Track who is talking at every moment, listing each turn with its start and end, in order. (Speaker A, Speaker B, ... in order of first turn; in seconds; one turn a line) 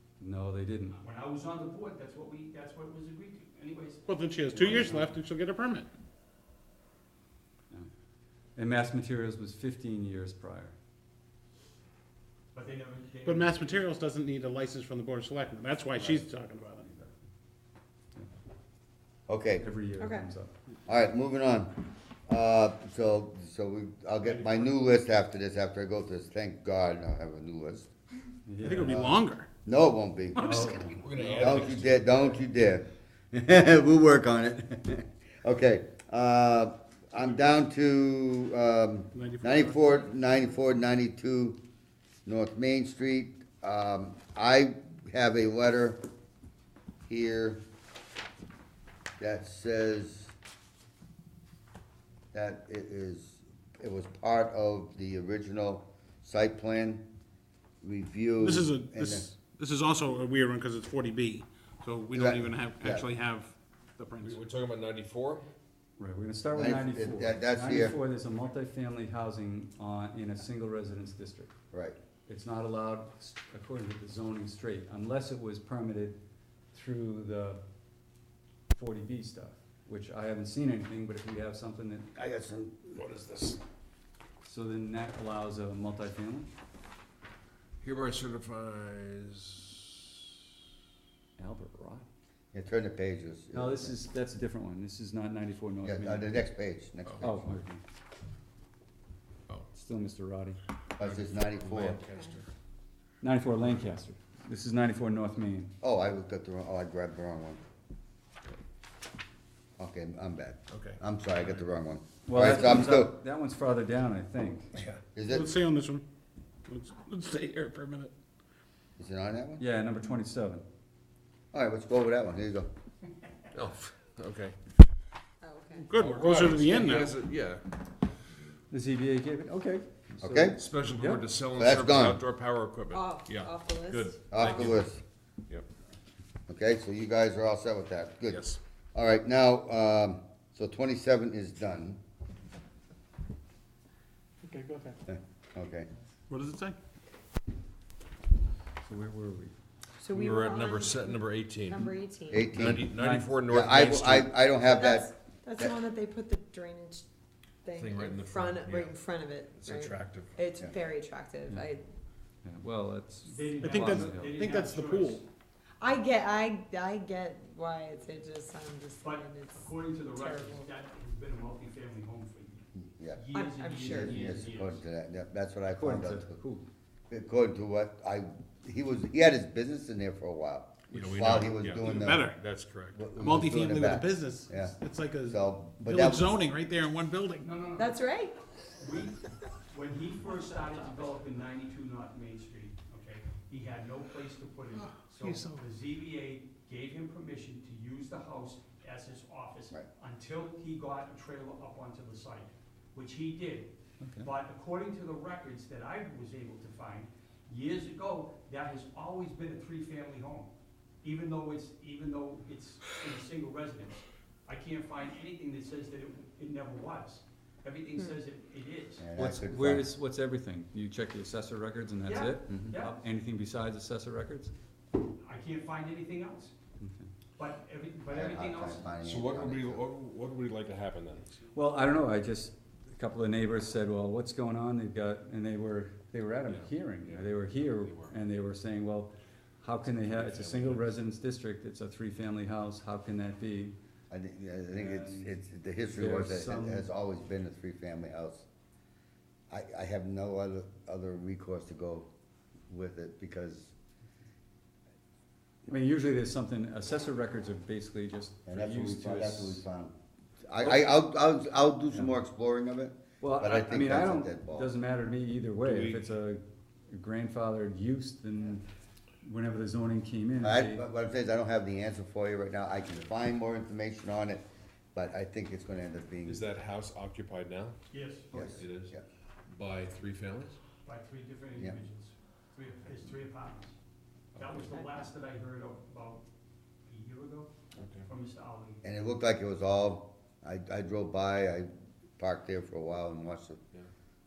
Speaker A: 0.2-1.0
Speaker B: 1.0-5.0
Speaker C: 4.1-5.9
Speaker A: 4.5-5.1
Speaker A: 8.6-10.8
Speaker B: 12.5-13.8
Speaker C: 13.2-16.9
Speaker A: 16.8-17.1
Speaker D: 19.3-19.7
Speaker A: 19.6-20.5
Speaker E: 20.0-20.3
Speaker D: 20.9-21.7
Speaker D: 22.3-27.9
Speaker C: 24.3-24.7
Speaker A: 28.5-29.0
Speaker C: 28.6-29.5
Speaker D: 28.8-41.6
Speaker C: 30.4-30.8
Speaker A: 30.4-31.4
Speaker F: 30.9-32.2
Speaker C: 39.1-40.0
Speaker E: 40.0-40.3
Speaker D: 42.3-46.0
Speaker D: 47.1-47.6
Speaker D: 49.2-50.3
Speaker D: 52.3-57.0
Speaker D: 57.8-59.3
Speaker C: 58.4-64.4
Speaker D: 62.1-63.0
Speaker F: 64.2-65.5
Speaker A: 66.0-71.5
Speaker D: 66.5-68.0
Speaker D: 71.7-72.0
Speaker A: 72.3-76.2
Speaker A: 76.7-77.6
Speaker A: 78.7-82.1
Speaker D: 82.2-83.0
Speaker F: 83.0-83.6
Speaker A: 84.4-86.5
Speaker F: 87.8-90.1
Speaker A: 91.4-92.0
Speaker D: 92.5-94.0
Speaker A: 93.5-96.3
Speaker D: 95.8-97.4
Speaker A: 97.2-97.8
Speaker A: 99.7-100.6
Speaker D: 101.0-102.0
Speaker F: 101.0-102.5
Speaker A: 103.2-105.7
Speaker D: 105.8-107.6
Speaker D: 109.8-113.1
Speaker F: 110.7-111.0
Speaker A: 112.2-114.7
Speaker D: 115.0-115.5
Speaker C: 115.2-116.0
Speaker C: 116.7-118.1
Speaker D: 119.0-119.6
Speaker A: 119.6-120.6
Speaker D: 121.5-122.7
Speaker F: 123.5-124.6
Speaker E: 125.4-126.0
Speaker C: 125.8-127.1
Speaker F: 126.0-127.7
Speaker A: 128.7-131.2
Speaker D: 130.2-130.6
Speaker F: 130.6-134.9
Speaker D: 131.5-132.2
Speaker E: 132.9-134.5
Speaker D: 134.3-135.0
Speaker D: 136.5-142.0
Speaker F: 138.3-138.6
Speaker C: 144.4-144.9
Speaker D: 145.1-145.9
Speaker C: 146.3-146.8
Speaker A: 148.8-149.5
Speaker E: 150.0-152.7
Speaker F: 150.1-151.9
Speaker D: 152.3-153.0
Speaker F: 152.6-154.5
Speaker A: 152.9-153.3
Speaker D: 153.5-155.7
Speaker E: 154.6-157.1
Speaker E: 157.6-161.9
Speaker F: 157.8-159.0
Speaker F: 159.6-160.4
Speaker A: 162.4-164.4
Speaker B: 163.3-165.2
Speaker C: 163.6-165.2
Speaker E: 165.8-170.7
Speaker B: 169.0-174.8
Speaker D: 172.8-173.2
Speaker E: 173.3-174.2
Speaker D: 173.8-176.4
Speaker A: 175.7-176.7
Speaker D: 177.1-182.3
Speaker F: 180.9-183.2
Speaker C: 181.8-182.4
Speaker D: 182.9-184.8
Speaker C: 183.2-187.5
Speaker D: 185.3-186.3
Speaker B: 187.4-188.1
Speaker E: 187.8-188.4
Speaker B: 188.8-189.2
Speaker B: 189.7-210.5
Speaker C: 194.8-195.6
Speaker A: 204.0-204.3
Speaker B: 211.0-219.0
Speaker D: 219.0-219.9
Speaker A: 219.2-224.5
Speaker B: 222.1-223.0
Speaker B: 225.2-226.5
Speaker A: 226.8-227.1
Speaker B: 227.4-229.0
Speaker D: 228.1-229.8
Speaker F: 229.0-231.4
Speaker A: 231.5-243.8
Speaker F: 236.5-238.2
Speaker F: 239.8-241.0
Speaker D: 244.1-248.4
Speaker A: 244.7-245.3
Speaker A: 246.0-246.9
Speaker D: 249.5-252.1
Speaker D: 252.7-253.7
Speaker A: 255.7-259.6
Speaker D: 258.5-264.7
Speaker A: 260.6-260.9
Speaker A: 263.2-268.6
Speaker F: 265.6-266.0
Speaker A: 269.2-270.8
Speaker D: 270.4-276.4
Speaker F: 276.2-277.8
Speaker B: 277.9-278.3
Speaker F: 278.3-278.9
Speaker D: 278.3-279.0
Speaker F: 279.5-280.6
Speaker B: 280.8-283.8
Speaker B: 284.4-286.2
Speaker F: 284.4-284.6
Speaker B: 286.9-287.5
Speaker F: 287.8-288.1
Speaker B: 288.0-288.8
Speaker D: 288.8-293.6